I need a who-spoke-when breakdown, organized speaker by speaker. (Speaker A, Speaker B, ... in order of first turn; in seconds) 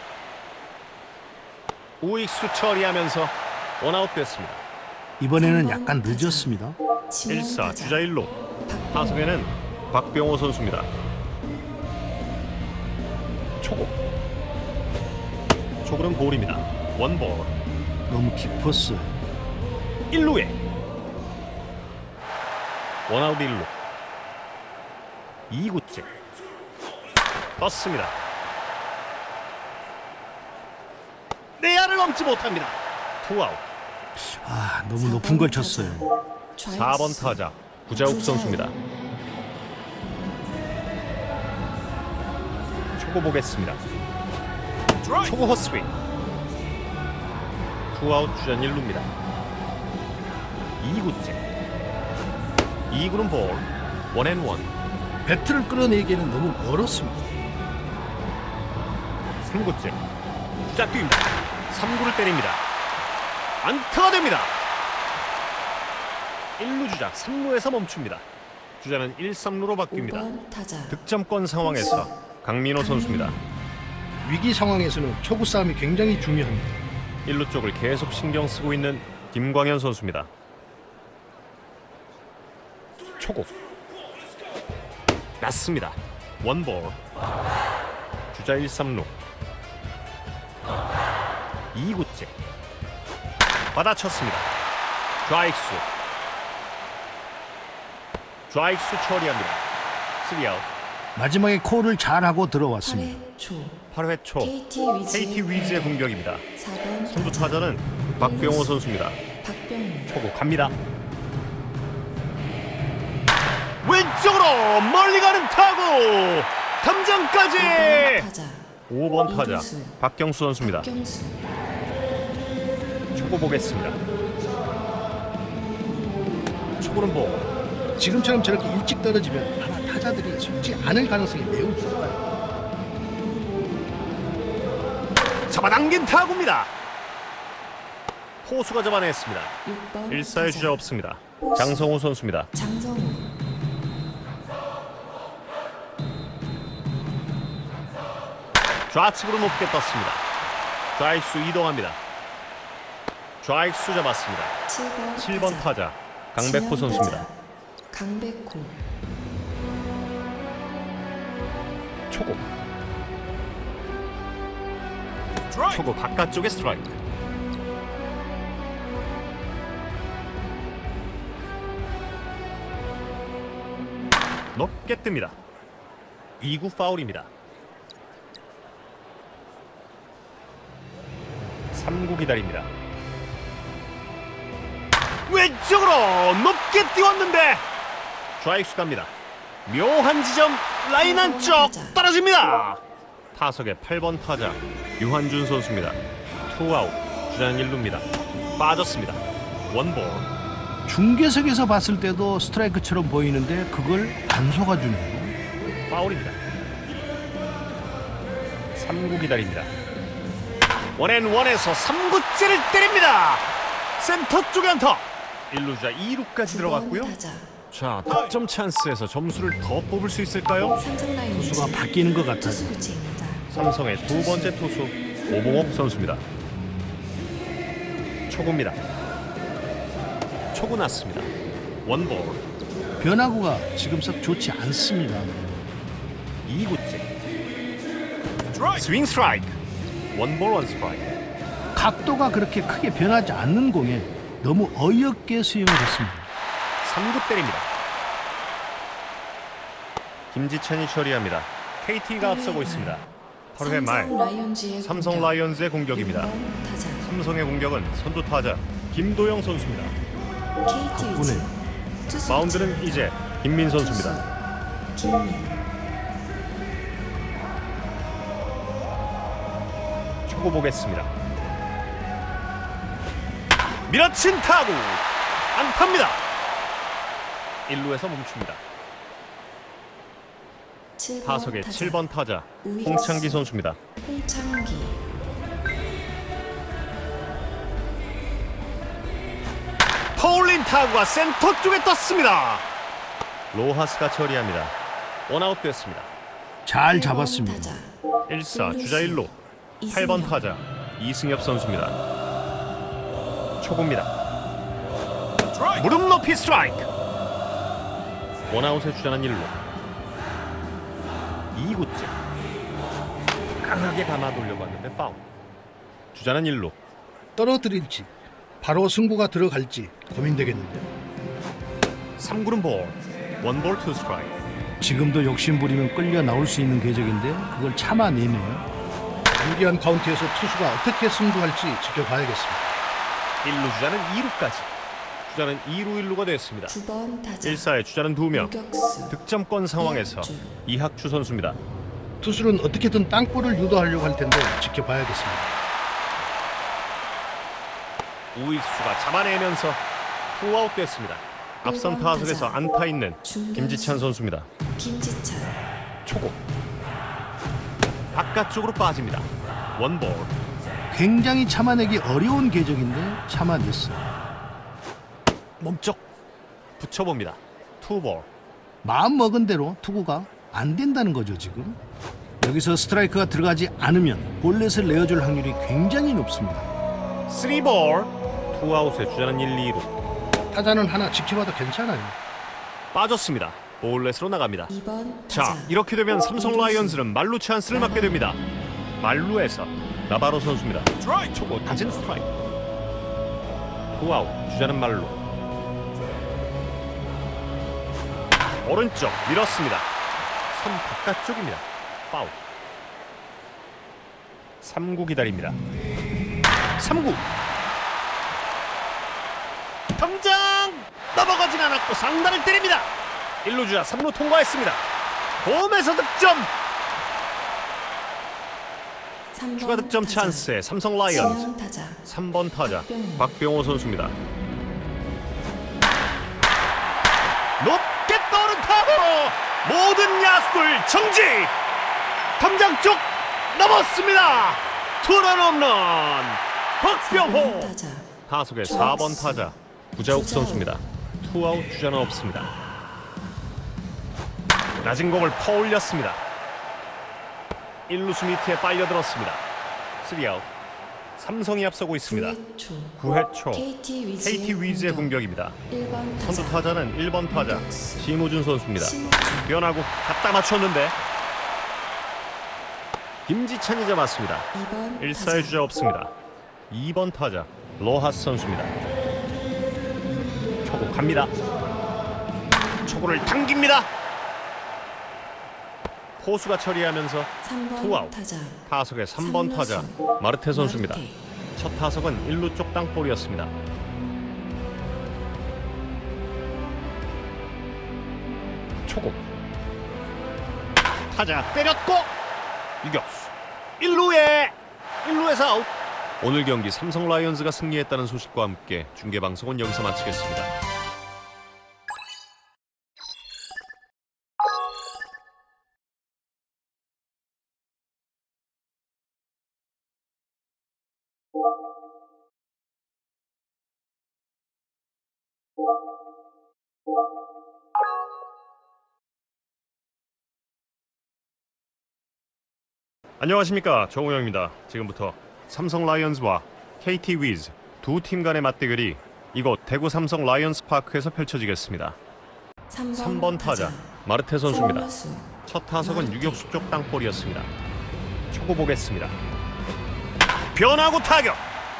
Speaker A: 2.0-4.6, 7.3-8.3, 8.9-10.9, 13.6-13.9, 15.8-17.5, 20.1-20.6, 23.1-23.7, 25.5-26.1, 27.6-28.1, 31.6-33.6, 36.7-38.7, 42.9-43.8, 45.2-45.9, 47.9-49.1, 50.8-51.4, 52.9-54.7, 59.4-60.0, 60.7-62.6, 63.6-64.6, 66.6-68.2, 68.8-70.3, 70.9-73.4, 77.2-80.3, 83.2-83.5, 85.4-87.0, 88.3-89.1, 91.7-92.3, 93.7-94.5, 95.2-95.8, 98.5-99.6, 100.2-100.7, 103.9-104.5, 105.1-106.5, 107.1-109.2, 110.1-110.7, 113.8-118.3, 118.9-120.9, 123.1-124.0, 126.8-127.5, 135.5-136.7, 138.4-139.5, 140.1-142.5, 148.9-150.2, 150.9-152.0, 153.4-154.6, 155.2-157.3, 162.1-162.4, 165.6-167.0, 174.5-175.4, 176.4-177.3, 181.7-182.7, 185.3-187.6, 188.4-189.1, 189.7-192.8, 193.3-198.1, 198.6-200.3, 205.9-206.4, 208.8-209.7, 210.9-213.4, 214.0-217.1, 217.7-220.8, 223.5-226.2, 228.3-228.8, 230.5-231.3, 231.8-232.4, 236.4-237.1, 238.7-239.6, 240.1-241.1, 246.8-247.7, 250.3-254.1, 254.8-256.3, 257.0-259.9, 262.3-264.2, 270.3-271.1, 273.9-275.0, 275.5-276.2, 277.7-278.6, 281.2-283.8, 290.1-292.6, 293.5-294.7, 295.3-296.1, 298.3-299.3, 299.9-302.0, 303.6-304.1, 305.8-306.9, 308.5-309.5, 311.5-312.1, 313.6-315.2, 316.1-316.8, 322.2-324.3, 333.4-334.7, 335.3-336.8, 337.4-338.5, 339.1-341.6, 348.3-349.8, 350.3-354.5, 356.1-356.4, 358.1-360.3, 365.6-366.0, 366.8-368.3, 377.3-379.9, 382.9-384.7, 385.3-388.4, 389.0-392.3, 393.9-395.2, 398.6-399.9, 400.5-402.4, 404.6-405.6, 406.8-407.2, 409.9-412.9, 413.4-414.8, 415.4-416.5, 419.6-421.5, 422.0-424.1, 427.6-431.5, 432.4-437.7, 438.3-442.5, 444.8-446.2, 447.9-449.4, 450.0-450.5, 451.1-452.4, 453.0-453.7, 454.2-455.6, 456.2-460.9, 463.3-464.5, 465.0-466.1, 466.7-468.7, 470.6-471.3, 472.8-473.9, 476.2-478.1, 478.7-481.0, 481.6-483.5, 488.9-489.2, 491.1-492.1, 492.8-495.7, 496.2-500.5, 523.2-532.0, 532.9-534.9, 535.5-537.5, 538.3-539.1, 540.5-541.4
Speaker B: 5.2-6.8, 18.1-19.1, 34.1-36.0, 55.2-57.3, 74.2-76.7, 101.2-103.2, 128.0-132.3, 200.9-205.3, 221.3-222.7, 233.0-235.6, 241.8-246.3, 260.9-261.5, 296.6-297.7, 317.4-320.9, 324.8-328.6, 329.4-332.6, 342.2-345.4, 360.9-364.0, 368.8-371.8, 372.4-376.7, 380.5-382.1
Speaker C: 5.4-6.5, 7.1-8.0, 8.7-9.2, 35.0-37.4, 37.9-38.7, 69.9-71.0, 71.6-72.1, 72.8-73.4, 102.8-103.8, 104.4-106.0, 106.6-108.7, 109.4-110.1, 117.6-118.6, 119.2-120.0, 120.6-121.4, 139.6-140.8, 141.4-141.9, 142.5-143.3, 154.7-155.7, 156.4-157.3, 157.9-158.8, 191.0-192.0, 216.4-217.5, 220.8-223.4, 224.1-224.5, 252.2-253.1, 253.6-255.3, 255.9-257.0, 260.6-261.5, 262.1-263.1, 263.8-264.3, 264.9-265.6, 281.0-282.0, 282.6-283.4, 284.0-285.0, 296.8-297.9, 298.4-299.3, 299.8-300.4, 336.7-337.6, 338.3-339.1, 339.8-340.5, 351.6-352.6, 353.2-354.1, 354.8-355.5, 384.7-385.7, 386.3-387.0, 387.7-388.2, 419.3-420.5, 421.1-422.0, 422.6-423.2, 437.0-438.1, 438.6-439.4, 440.0-440.7, 452.1-452.9, 453.5-455.1, 455.7-456.7, 457.3-458.1, 458.8-459.5, 464.5-465.6, 477.4-478.6, 479.2-481.2, 532.7-533.9, 534.5-535.3, 535.8-536.5